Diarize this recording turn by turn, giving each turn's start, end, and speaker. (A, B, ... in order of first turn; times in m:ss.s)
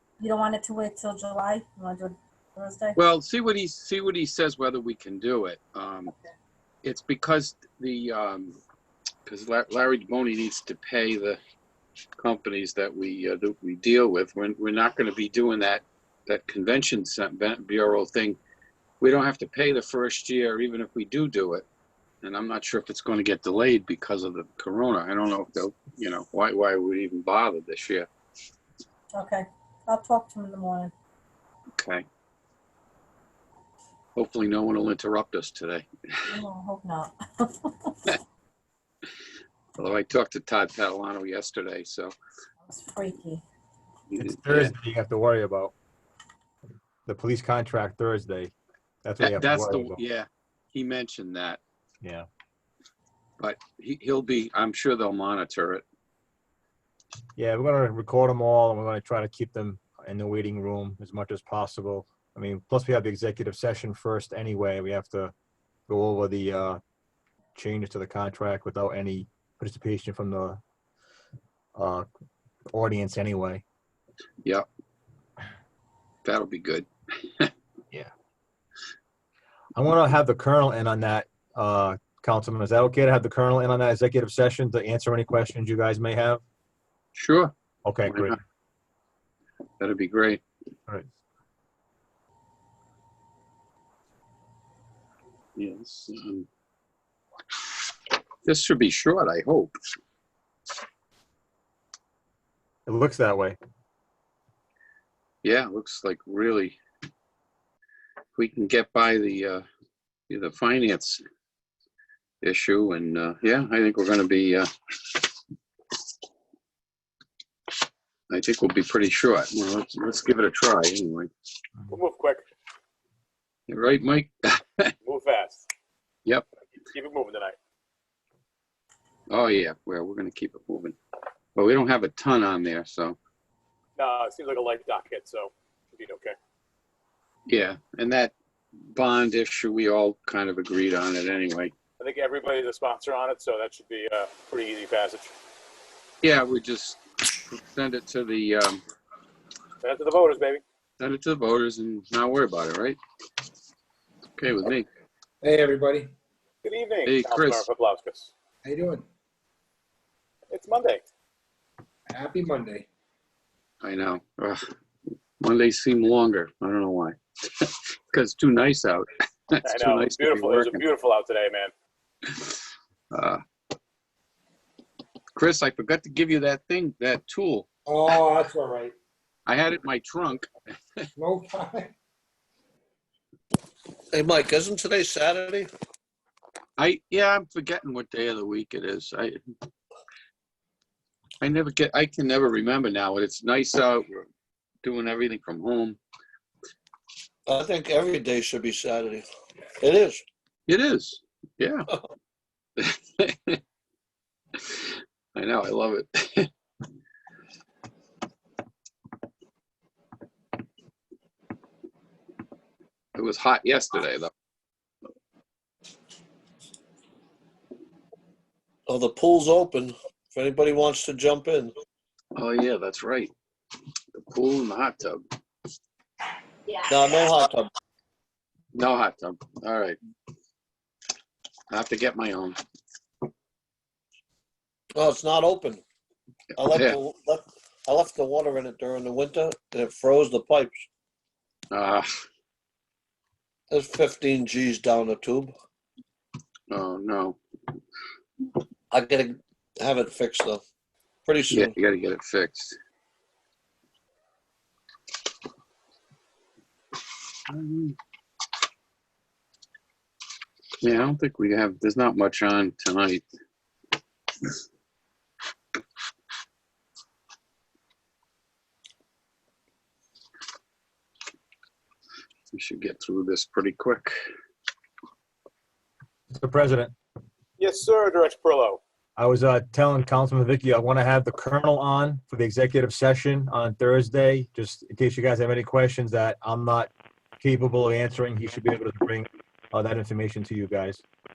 0:00.2-0:03.0 A
0:03.0-0:06.1 B
0:06.8-0:08.6 B
0:09.2-0:11.4 B
0:12.2-0:18.4 B
0:19.0-0:21.7 B
0:22.2-0:28.1 B
0:29.1-0:30.9 A
0:31.8-0:32.0 B
0:34.2-0:36.3 B
0:36.2-0:38.2 A
0:39.8-0:42.1 B
0:42.6-0:43.4 A
0:44.1-0:44.7 B
0:44.2-0:45.7 C
0:47.0-0:48.5 C
0:49.0-0:50.0 C
0:49.2-0:51.6 B
0:53.4-0:55.8 B
0:57.4-1:05.3 C
1:05.9-1:06.8 C
1:07.6-1:10.6 C
1:11.8-1:12.0 C
1:12.7-1:13.6 C
1:16.2-1:17.5 B
1:19.8-1:26.4 C
1:27.2-1:27.5 B
1:27.8-1:28.4 C
1:28.0-1:28.4 B
1:29.8-1:30.4 B
1:35.6-1:36.5 B
1:38.4-1:39.7 B
1:42.9-1:43.6 C
1:45.4-1:46.8 B
1:48.3-1:49.6 B
1:50.3-1:51.2 B
1:52.4-1:55.3 B
1:58.3-2:01.3 B
2:01.9-2:02.4 D
2:03.7-2:04.9 B
2:05.0-2:05.6 D
2:06.9-2:07.6 D
2:09.3-2:11.0 B
2:11.6-2:13.2 B
2:14.0-2:16.3 D
2:17.5-2:18.3 B
2:18.9-2:21.7 B
2:22.0-2:25.3 D
2:26.2-2:28.8 B
2:29.8-2:30.6 D
2:31.0-2:33.0 B
2:34.4-2:34.8 B
2:35.4-2:36.1 E
2:36.6-2:38.3 D
2:37.0-2:37.7 B
2:38.6-2:39.0 E
2:40.5-2:41.0 D
2:42.1-2:42.9 E
2:43.8-2:44.6 B
2:45.4-2:50.8 B
2:49.6-2:51.7 D
2:52.3-2:52.6 B
2:53.1-2:53.4 B
2:55.3-2:57.7 B
2:57.8-2:58.9 E
2:59.4-3:01.0 B
3:01.2-3:01.9 E
3:04.1-3:05.7 F
3:06.8-3:09.4 B
3:11.4-3:14.3 B
3:14.8-3:16.0 B
3:17.5-3:19.2 F
3:19.8-3:20.2 F
3:20.7-3:21.9 B
3:22.8-3:23.6 B
3:24.5-3:26.5 B
3:33.1-3:34.3 B
3:38.9-3:41.7 F
3:42.3-3:43.3 B
3:44.1-3:45.2 B
3:46.9-3:47.7 F
3:48.7-3:50.0 B
3:51.7-3:52.6 B
3:54.9-3:55.8 F
3:56.6-4:00.9 F
3:56.6-3:57.0 B
4:01.7-4:02.1 B
4:03.7-4:05.5 F
4:06.7-4:07.4 B
4:08.9-4:10.6 F
4:11.2-4:11.7 F
4:11.5-4:12.8 B
4:17.5-4:18.0 B
4:20.8-4:23.2 B
4:32.5-4:34.1 B
4:36.3-4:36.9 C
4:37.6-4:38.8 D
4:39.2-4:46.9 C
4:47.4-4:51.0 C